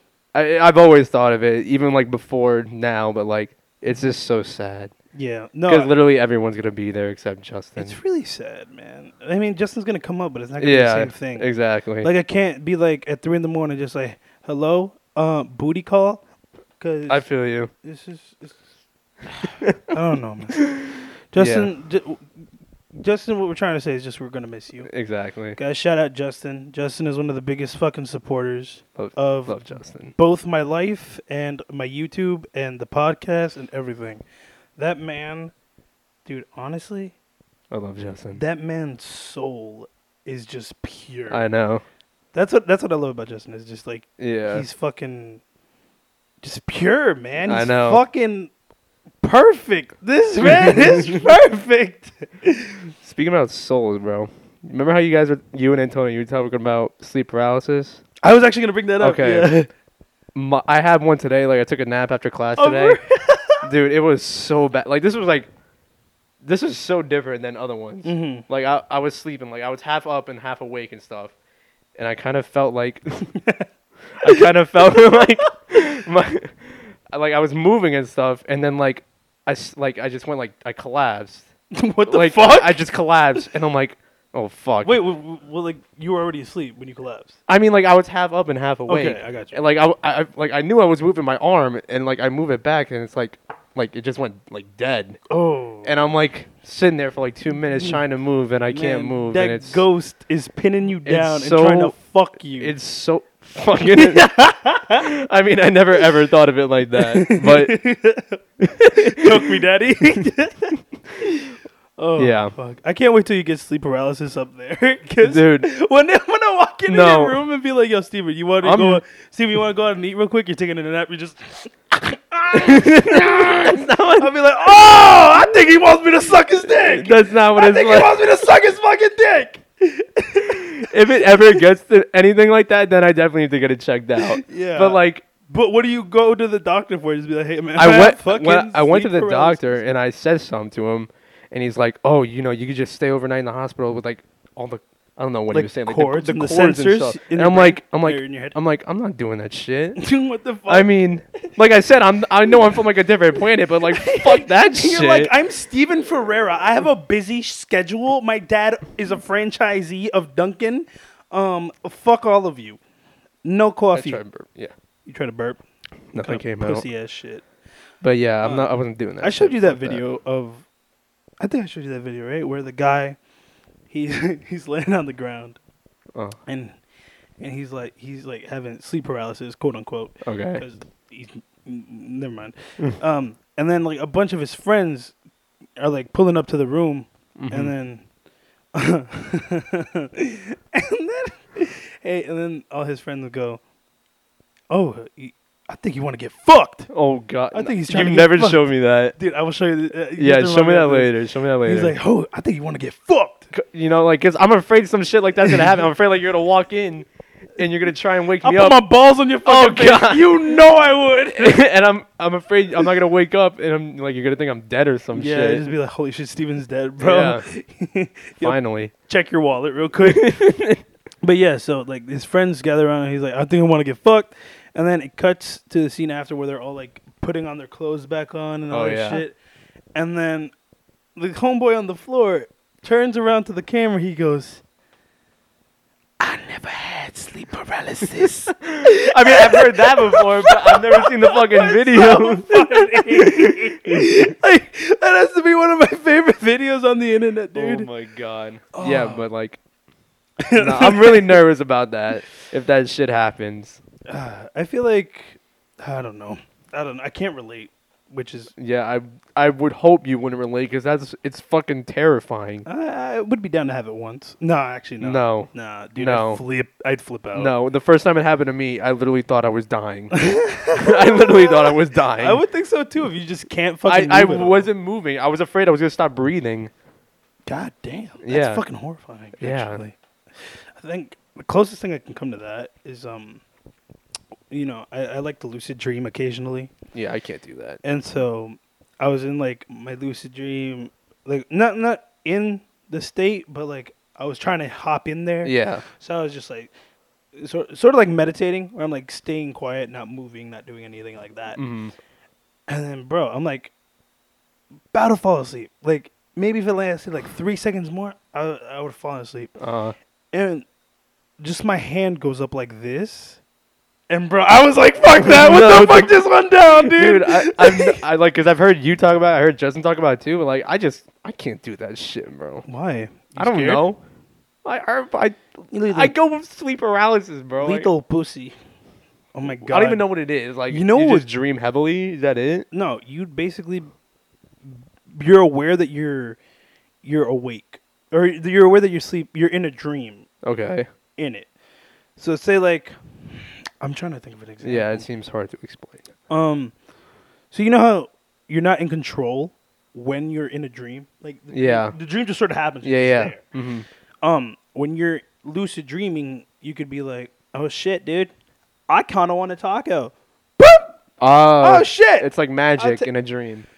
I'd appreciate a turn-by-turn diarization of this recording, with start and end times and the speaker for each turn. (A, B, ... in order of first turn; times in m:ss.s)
0:00.3-0:04.9 A
0:05.1-0:05.9 B
0:05.7-0:08.0 A
0:07.8-0:11.5 B
0:10.6-0:12.1 A
0:12.0-0:16.2 B
0:16.8-0:17.2 B
0:17.1-0:17.7 A
0:17.8-0:18.6 B
0:19.3-0:20.6 B
0:20.7-0:21.7 A
0:21.3-0:22.3 B
0:22.9-0:24.9 B
0:24.9-0:25.6 A
0:25.6-0:29.6 B
0:29.0-0:30.1 A
0:30.1-0:34.2 B
0:34.8-0:35.5 B
0:36.2-0:37.1 B
0:37.7-0:38.4 A
0:38.3-0:41.4 B
0:41.3-0:41.8 A
0:42.3-0:45.4 B
0:44.2-0:44.6 A
0:46.4-0:48.5 B
0:47.4-0:48.0 A
0:49.2-0:52.8 B
0:50.4-0:51.2 A
0:53.0-0:58.0 A
0:58.2-0:59.7 B
0:59.0-0:59.5 A
1:00.3-1:03.0 A
1:02.6-1:03.7 B
1:03.6-1:05.5 A
1:06.4-1:11.3 A
1:08.0-1:08.4 B
1:12.0-1:13.3 A
1:13.4-1:13.6 B
1:14.2-1:21.5 A
1:21.7-1:22.8 B
1:22.1-1:25.0 A
1:24.8-1:27.4 B
1:27.5-1:35.2 A
1:28.9-1:29.6 B
1:35.3-1:36.0 B
1:35.8-1:39.8 A
1:37.5-1:38.0 B
1:38.7-1:42.7 B
1:41.0-1:42.0 A
1:42.5-1:44.3 A
1:43.9-1:45.1 B
1:44.9-1:47.8 A
1:47.0-2:11.6 B
1:48.6-1:49.5 A
1:52.2-1:52.5 A
1:55.2-1:55.7 A
1:56.9-1:57.4 A
1:58.6-1:59.0 A
2:02.5-2:04.3 A
2:06.7-2:08.2 A
2:10.5-2:15.2 A
2:14.2-2:19.8 B
2:17.8-2:30.0 A
2:25.5-2:28.5 B
2:30.0-2:30.9 B
2:30.7-2:35.3 A
2:33.9-2:42.8 B
2:43.4-2:44.2 B
2:43.9-2:44.7 A
2:45.0-2:45.6 B
2:46.1-2:46.8 A
2:46.2-2:47.4 B
2:48.0-2:50.0 A
2:48.4-2:50.7 B
2:51.4-2:53.2 B
2:53.9-2:55.6 B
2:56.4-2:56.8 B
2:57.4-3:05.1 B
3:00.2-3:00.6 A
3:05.8-3:08.0 B
3:07.4-3:07.7 A
3:08.7-3:13.6 B
3:14.7-3:16.9 B
3:16.9-3:19.2 A
3:17.5-3:21.1 B
3:20.2-3:22.0 A
3:21.6-3:23.5 B
3:23.5-3:28.8 A
3:28.4-3:31.6 B
3:29.4-3:30.6 A
3:31.3-3:35.7 A
3:35.1-3:40.4 B
3:37.0-3:37.4 A
3:38.4-3:38.9 A
3:40.0-3:40.8 A
3:41.2-3:49.4 B
3:48.7-3:49.2 A
3:49.9-3:50.5 B
3:51.2-3:54.6 B
3:56.2-4:07.9 B
3:58.7-4:04.1 A
4:07.5-4:09.6 A
4:08.7-4:09.2 B
4:10.4-4:11.4 B
4:10.5-4:13.8 A
4:14.1-4:18.5 B
4:18.5-4:22.6 A
4:22.6-4:27.5 B
4:25.0-4:26.4 A
4:27.3-4:32.4 A
4:30.1-4:34.7 B
4:33.8-4:36.7 A
4:37.5-4:43.4 B
4:38.2-4:38.6 A
4:39.4-4:39.8 A
4:44.5-4:46.8 B
4:46.9-4:47.8 A
4:47.8-4:56.7 B
4:55.4-4:55.8 A
4:57.4-5:01.6 B
5:01.6-5:01.9 A
5:02.7-5:03.7 B
5:04.9-5:09.5 B
5:09.6-5:09.9 A
5:10.3-5:10.6 B
5:11.4-5:13.4 B
5:14.1-5:18.0 B
5:15.2-5:22.6 A
5:22.6-5:23.8 B
5:23.4-5:24.0 A
5:24.6-5:27.9 A
5:25.7-5:26.1 B
5:27.6-5:28.5 B
5:29.3-5:30.0 B
5:29.4-5:32.7 A
5:30.7-5:31.3 B
5:32.7-5:33.9 B
5:34.7-5:36.4 B
5:37.0-5:40.3 B
5:40.4-5:40.9 A
5:41.2-5:41.5 B
5:42.2-5:45.0 B
5:44.6-5:46.1 A
5:46.3-5:46.7 B
5:47.5-5:53.4 B
5:51.5-5:51.9 A
5:52.8-5:53.8 A
5:54.2-5:58.3 B
5:58.9-6:00.9 B
6:01.2-6:03.6 A
6:01.6-6:03.1 B